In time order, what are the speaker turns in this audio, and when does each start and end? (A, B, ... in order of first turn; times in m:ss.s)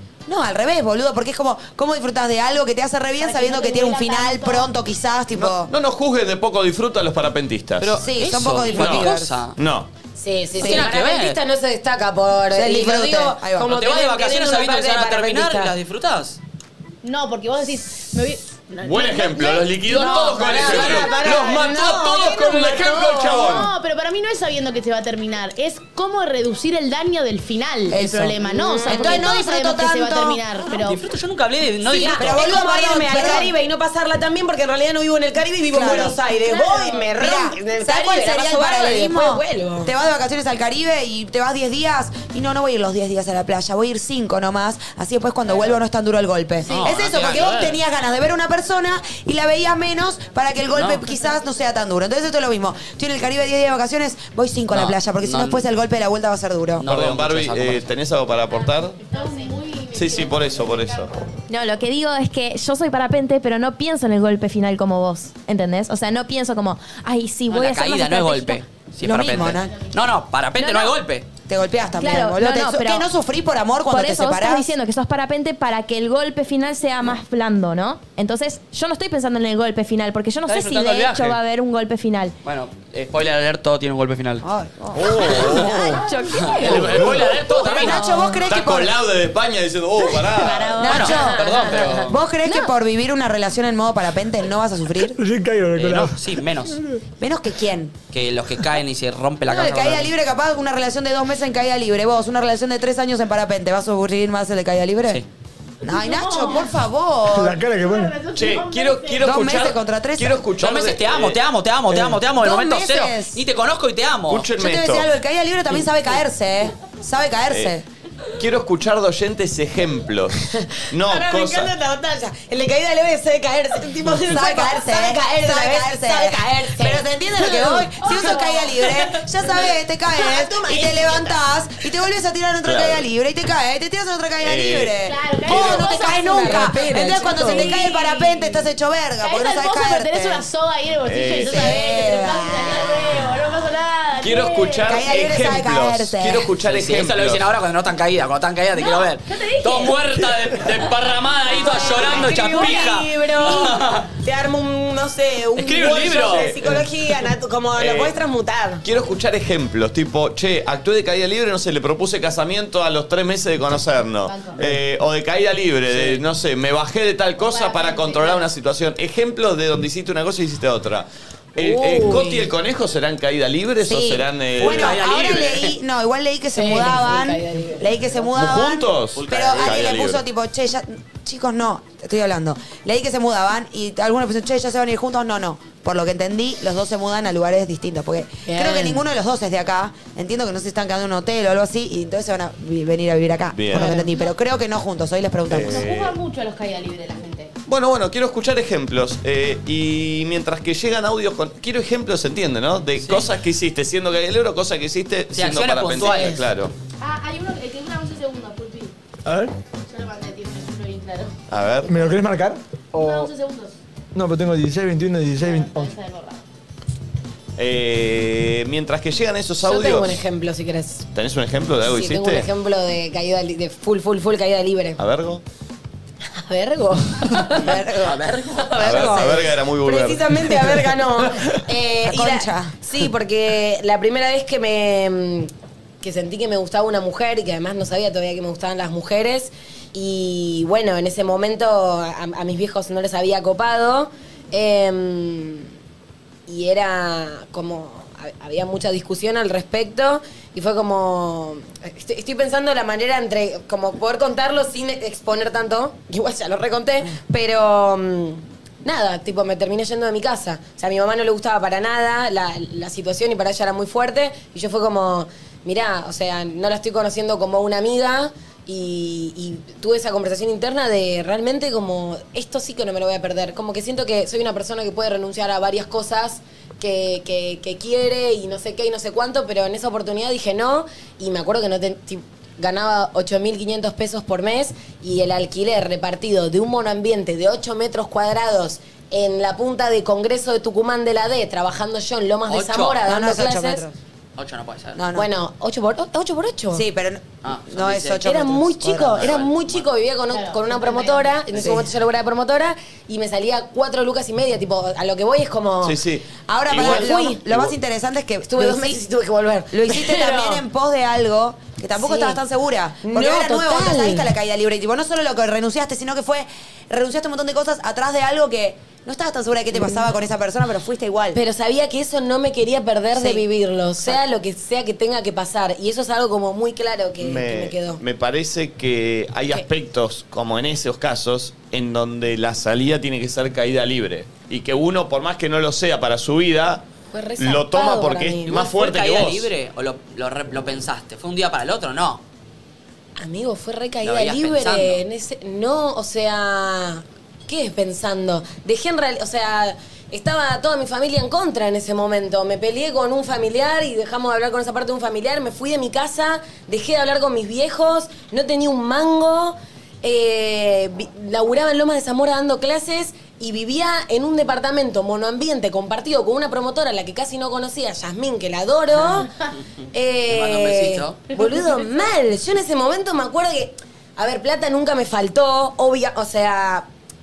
0:00.2-0:05.7 A
0:03.2-0:04.7 B
0:05.3-0:08.0 C
0:07.8-0:09.6 D
0:08.0-0:09.4 A
0:08.7-0:09.9 C
0:10.2-0:15.7 E
0:10.6-0:11.4 D
0:12.5-0:13.7 A
0:13.6-0:16.4 D
0:17.0-0:21.6 B
0:18.8-0:23.7 C
0:19.9-0:23.7 E
0:23.3-0:31.0 B
0:27.9-0:30.4 A
0:28.4-0:29.3 E
0:30.7-0:32.4 D
0:31.8-0:39.9 E
0:31.9-0:33.5 A
0:35.7-0:36.2 A
0:36.5-0:37.0 B
0:37.2-0:56.8 A
0:46.6-0:47.8 D
0:50.7-0:51.0 D
0:54.7-0:55.6 D
0:56.8-0:57.9 D
0:56.8-0:59.0 C
0:59.0-1:01.1 B
0:59.9-1:01.1 C
1:01.5-1:08.6 F
1:07.5-1:11.2 D
1:09.0-1:09.7 A
1:10.6-1:10.9 F
1:11.5-1:14.7 A
1:11.9-1:13.1 F
1:13.8-1:22.3 F
1:20.4-1:21.4 D
1:22.4-1:24.4 D
1:24.4-1:25.6 A
1:24.9-1:26.0 C
1:24.9-1:28.5 F
1:25.8-1:26.6 B
1:26.6-1:28.2 D
1:26.6-1:26.9 E
1:26.7-1:27.8 C
1:26.8-1:27.2 G
1:27.6-1:28.9 A
1:28.4-1:31.0 C
1:30.4-1:30.8 F
1:30.8-1:35.2 A
1:30.8-1:32.2 D
1:30.9-1:32.1 E
1:32.4-1:32.7 F
1:35.1-1:36.3 G
1:35.7-1:36.8 D
1:37.2-1:37.9 A
1:38.1-1:40.1 D
1:39.5-1:45.2 A
1:45.8-1:47.6 A
1:45.8-1:46.7 B
1:47.3-1:48.2 G
1:47.6-1:49.3 B
1:48.3-1:51.4 C
1:49.2-1:50.5 A
1:50.6-1:54.5 D
1:52.3-1:53.4 A
1:54.3-1:55.1 C
1:54.6-1:57.8 A
1:58.4-2:00.4 C
2:00.5-2:11.4 E
2:00.9-2:01.7 C
2:04.2-2:20.5 A
2:08.0-2:08.6 B
2:12.6-2:13.0 C
2:14.4-2:14.9 C
2:15.0-2:18.6 B
2:15.5-2:17.9 E
2:19.2-2:25.0 B
2:21.0-2:21.6 C
2:21.4-2:22.9 A
2:24.2-2:27.4 C
2:24.9-2:26.5 A
2:26.6-2:34.1 D
2:28.8-2:29.9 B
2:31.5-2:38.8 E
2:31.5-2:32.7 B
2:35.6-2:36.6 D
2:36.2-2:36.9 C
2:37.7-2:38.2 C
2:38.8-2:55.6 C
2:44.2-2:44.6 B
2:47.4-2:48.5 B
2:51.6-2:52.5 E
2:53.8-3:15.8 A
2:54.6-2:55.7 D
2:56.5-2:57.9 E
2:58.3-3:00.2 C
3:08.4-3:09.0 E
3:13.5-3:13.9 C
3:13.7-3:14.2 B
3:15.5-3:16.1 C
3:15.5-3:17.5 B
3:17.7-3:26.7 C
3:23.0-3:23.3 D
3:25.3-3:26.4 D
3:26.0-3:26.4 E
3:27.0-3:28.9 B
3:29.2-3:29.5 G
3:29.8-3:31.3 B
3:31.5-3:31.9 C
3:31.8-3:33.3 G
3:32.9-3:33.8 B
3:34.1-3:35.9 G
3:35.4-3:36.4 B
3:37.6-3:40.2 C
3:39.6-3:41.0 E
3:41.1-3:42.5 C
3:41.8-3:45.0 E
3:45.0-3:45.4 C
3:46.4-3:55.5 E
3:47.6-3:49.5 A
3:48.0-3:48.5 D
3:48.8-3:50.8 C
3:52.0-3:52.8 A
3:56.0-4:05.7 E
4:06.5-4:53.8 E
4:52.5-4:53.0 D
4:53.0-4:54.0 A
4:54.4-4:55.0 D
4:54.9-4:55.3 A
4:55.1-4:56.8 E
4:56.7-4:59.3 A
4:57.4-4:58.2 D
4:58.2-5:06.0 E
4:59.2-4:59.9 D
5:00.3-5:01.4 B
5:01.5-5:01.9 A
5:05.8-5:07.7 C
5:06.5-5:09.0 A
5:06.7-5:07.4 E
5:08.5-5:10.6 E
5:09.7-5:21.4 A
5:12.0-5:12.4 E
5:13.0-5:14.3 E
5:19.7-5:20.1 E
5:21.3-5:28.0 E
5:23.1-5:23.4 A
5:27.2-5:36.8 C
5:37.1-5:38.6 E
5:37.4-5:39.5 C
5:38.5-5:42.2 D
5:43.2-6:09.3 E
5:44.0-5:45.0 D
6:09.9-6:16.9 E
6:10.3-6:11.3 D